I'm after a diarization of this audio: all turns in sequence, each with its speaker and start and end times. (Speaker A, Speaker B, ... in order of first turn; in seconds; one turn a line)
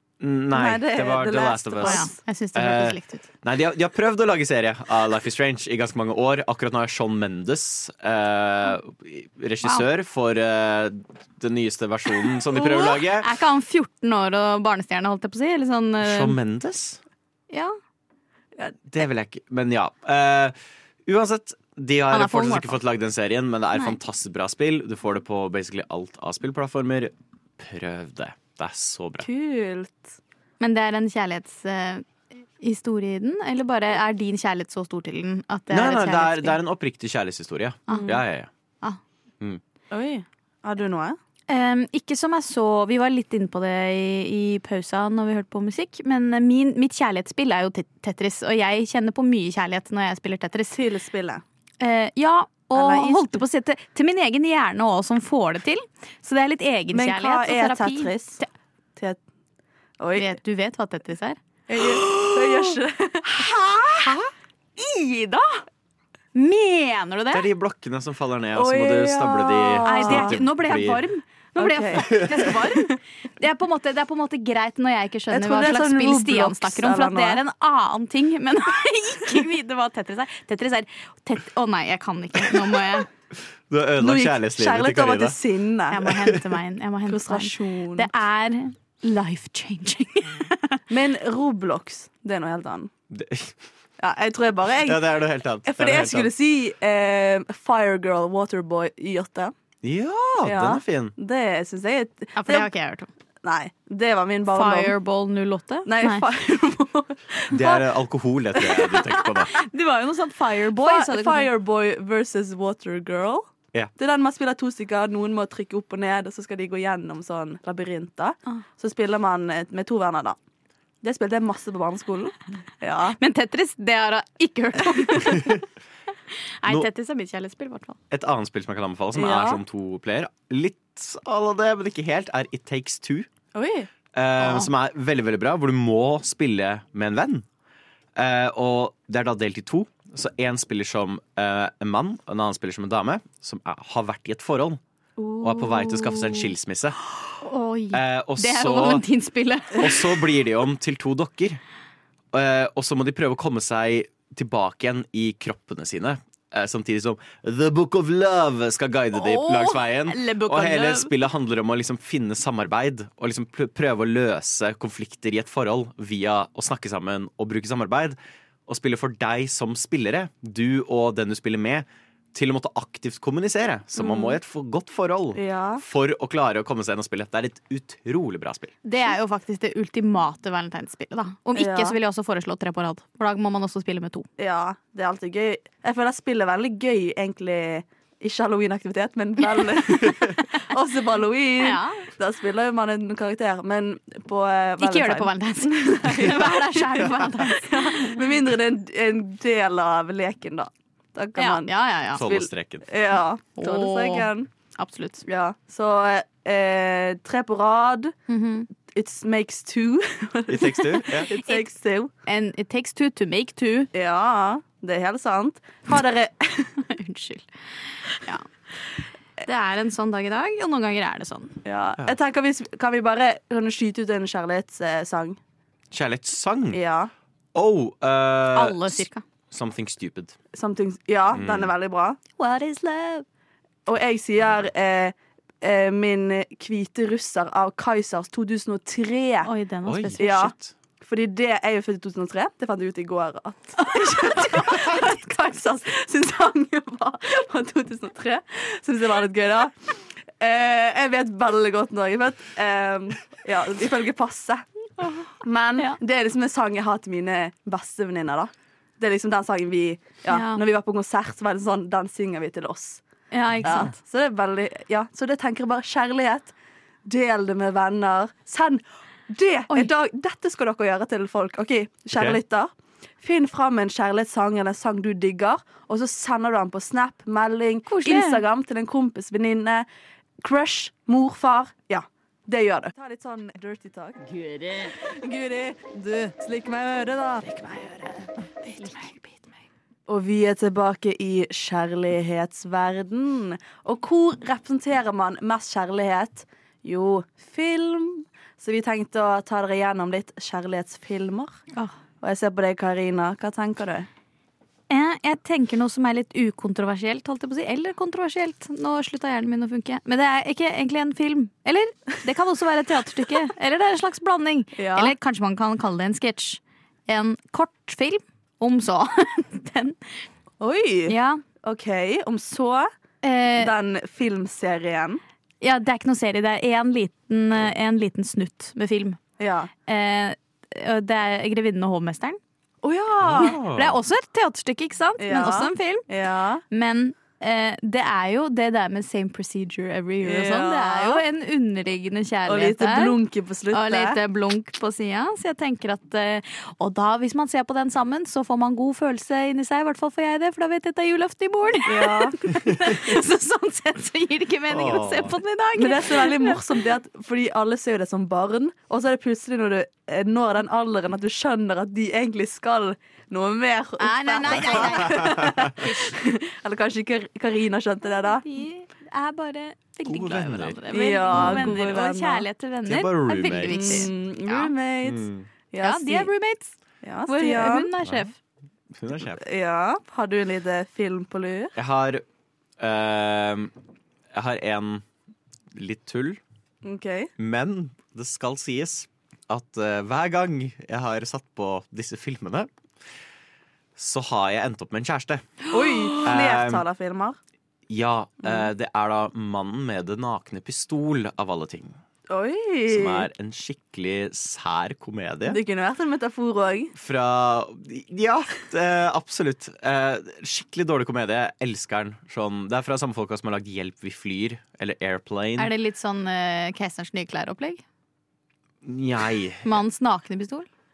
Speaker A: 0.2-13.3
Speaker B: 0.5-2.1
Speaker C: 1.8-3.3
Speaker C: 12.4-16.4
Speaker A: 16.0-17.0
Speaker C: 17.5-17.8
Speaker A: 18.9-29.3
Speaker C: 22.1-22.8
Speaker B: 29.2-30.1
Speaker C: 30.6-32.1
Speaker C: 32.6-36.6
Speaker A: 35.7-38.5
Speaker C: 37.9-38.2
Speaker B: 37.9-38.2
Speaker B: 39.9-41.2
Speaker C: 41.5-50.8
Speaker B: 50.7-51.4
Speaker C: 51.8-58.5
Speaker B: 52.7-53.4
Speaker B: 56.9-58.4
Speaker B: 60.0-60.3
Speaker C: 60.2-62.8
Speaker B: 61.7-64.2
Speaker C: 63.5-64.2
Speaker C: 64.8-65.5
Speaker C: 66.3-67.5
Speaker A: 67.3-71.0
Speaker B: 68.5-70.4
Speaker C: 69.9-83.1
Speaker B: 71.6-72.6
Speaker A: 72.0-72.5
Speaker B: 75.3-77.4
Speaker A: 83.7-85.4
Speaker B: 84.0-86.0
Speaker C: 85.9-90.8
Speaker B: 87.1-88.1
Speaker B: 90.9-92.9
Speaker A: 93.1-93.5
Speaker B: 94.0-95.0
Speaker A: 94.8-96.3
Speaker B: 95.6-99.5
Speaker A: 99.8-101.1
Speaker B: 100.4-102.7
Speaker C: 102.4-103.1
Speaker B: 103.4-104.9
Speaker C: 104.5-106.3
Speaker B: 105.9-107.8
Speaker A: 107.5-109.6
Speaker C: 109.5-111.5
Speaker B: 110.8-120.4
Speaker B: 121.0-123.2
Speaker C: 123.2-125.6
Speaker A: 125.3-125.6
Speaker C: 126.6-128.0
Speaker A: 128.1-133.3
Speaker B: 129.2-129.6
Speaker B: 133.5-133.9
Speaker A: 134.1-137.4
Speaker C: 134.4-134.7
Speaker A: 138.2-144.8
Speaker B: 145.2-146.4
Speaker A: 145.4-147.0
Speaker C: 147.4-150.1
Speaker A: 147.9-149.0
Speaker A: 149.8-151.6
Speaker A: 152.3-178.7
Speaker C: 159.2-161.1
Speaker B: 174.0-174.3
Speaker B: 175.3-175.8
Speaker C: 178.8-184.3
Speaker B: 181.6-182.0
Speaker B: 184.4-204.5
Speaker C: 191.6-192.1
Speaker C: 194.8-198.2
Speaker C: 201.4-202.2
Speaker A: 202.1-202.9
Speaker C: 203.6-205.2
Speaker B: 205.3-208.1
Speaker C: 208.3-208.7
Speaker B: 208.9-212.1
Speaker A: 210.5-211.3
Speaker C: 211.4-211.7
Speaker C: 212.3-213.9
Speaker B: 213.9-216.8
Speaker C: 216.8-217.5
Speaker C: 218.1-218.5
Speaker C: 219.4-221.6
Speaker B: 221.7-225.4
Speaker A: 225.9-226.8
Speaker B: 226.7-227.1
Speaker A: 227.5-230.3
Speaker C: 228.5-229.2
Speaker B: 230.5-232.2
Speaker A: 231.3-231.7
Speaker C: 232.4-233.3
Speaker B: 233.9-239.5
Speaker C: 239.4-240.3
Speaker A: 239.9-240.7
Speaker B: 240.2-254.7
Speaker C: 243.9-245.1
Speaker C: 255.0-255.3
Speaker B: 255.4-263.0
Speaker C: 260.3-260.6
Speaker C: 263.3-263.9
Speaker B: 263.6-266.5
Speaker B: 267.1-279.9
Speaker A: 272.1-272.4
Speaker C: 277.9-278.4
Speaker B: 280.4-287.9
Speaker C: 287.8-288.3
Speaker B: 288.7-289.0
Speaker C: 288.8-289.4
Speaker B: 290.1-301.6
Speaker B: 302.2-304.1
Speaker C: 304.9-320.1
Speaker B: 314.8-315.1
Speaker B: 320.6-322.9
Speaker C: 321.1-321.4
Speaker C: 323.2-323.7
Speaker B: 323.6-325.2
Speaker C: 325.6-329.2
Speaker B: 329.4-329.7
Speaker C: 329.9-332.4
Speaker B: 332.8-333.6
Speaker A: 333.2-334.0
Speaker C: 333.4-336.1
Speaker B: 335.2-336.6
Speaker C: 336.7-343.2
Speaker B: 340.2-341.2
Speaker B: 342.5-344.2
Speaker C: 343.7-356.8
Speaker B: 351.9-352.4
Speaker A: 354.7-355.4
Speaker B: 355.8-368.4
Speaker C: 364.0-366.1
Speaker A: 364.7-365.7
Speaker C: 368.1-374.7
Speaker A: 370.1-371.8
Speaker B: 370.9-372.5
Speaker A: 372.9-374.1
Speaker B: 373.6-376.3
Speaker A: 375.0-375.5
Speaker C: 375.8-376.7
Speaker B: 377.0-377.9
Speaker C: 377.3-378.4
Speaker A: 378.0-378.3
Speaker A: 378.9-379.4
Speaker B: 379.4-381.7
Speaker A: 381.8-382.2
Speaker A: 382.8-383.7
Speaker A: 384.3-385.1
Speaker A: 385.7-386.4
Speaker B: 386.8-387.3
Speaker A: 387.4-392.7
Speaker A: 394.0-395.6
Speaker B: 395.7-397.4
Speaker A: 396.2-396.9
Speaker A: 397.9-402.0
Speaker B: 402.3-403.3
Speaker A: 402.9-405.6
Speaker B: 405.5-406.9
Speaker A: 406.9-415.7
Speaker C: 415.6-417.8
Speaker A: 418.8-419.7
Speaker C: 419.6-420.7